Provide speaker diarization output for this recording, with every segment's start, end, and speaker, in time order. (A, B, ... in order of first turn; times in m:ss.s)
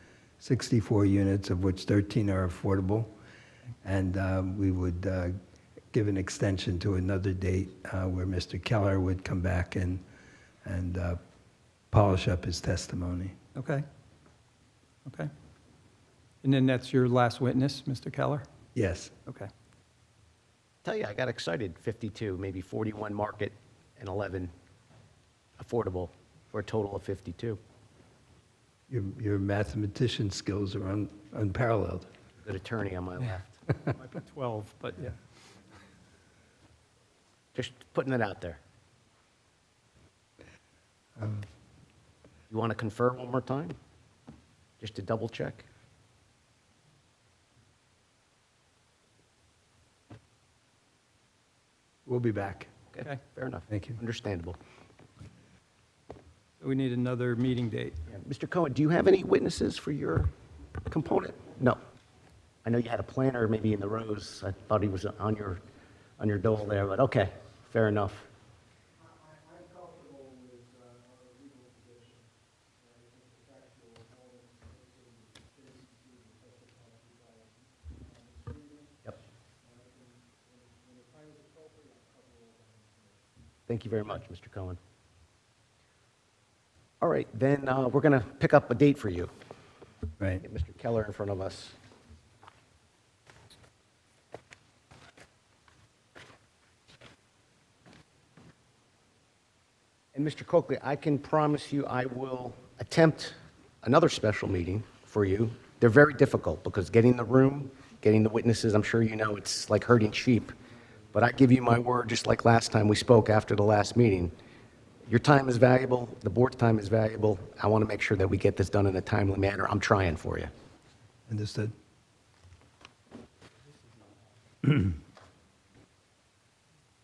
0:00.4-0:03.1 A
0:03.8-0:05.4 A
0:05.9-0:10.0 A
0:10.6-0:11.2 A
0:11.9-0:13.4 A
0:13.6-0:13.8 B
0:16.4-0:18.4 B
0:18.8-0:19.1 A
0:20.8-0:24.5 C
0:25.6-0:27.6 C
0:28.9-0:32.1 A
0:32.4-0:33.6 C
0:33.9-0:35.2 B
0:37.5-0:38.6 C
0:41.2-0:41.4 A
0:42.5-0:43.8 C
0:44.8-0:45.6 C
0:52.0-0:52.7 A
0:53.0-0:54.6 C
0:53.7-0:54.0 A
0:56.6-0:58.0 B
0:58.1-1:00.3 C
1:00.9-1:01.8 C
1:02.6-1:05.6 C
1:06.2-1:08.3 C
1:23.7-1:24.8 C
1:27.0-1:29.3 C
1:30.4-1:31.8 C
1:40.1-1:50.6 C
1:51.1-1:54.3 C
1:55.1-2:00.5 C
2:01.3-2:01.7 A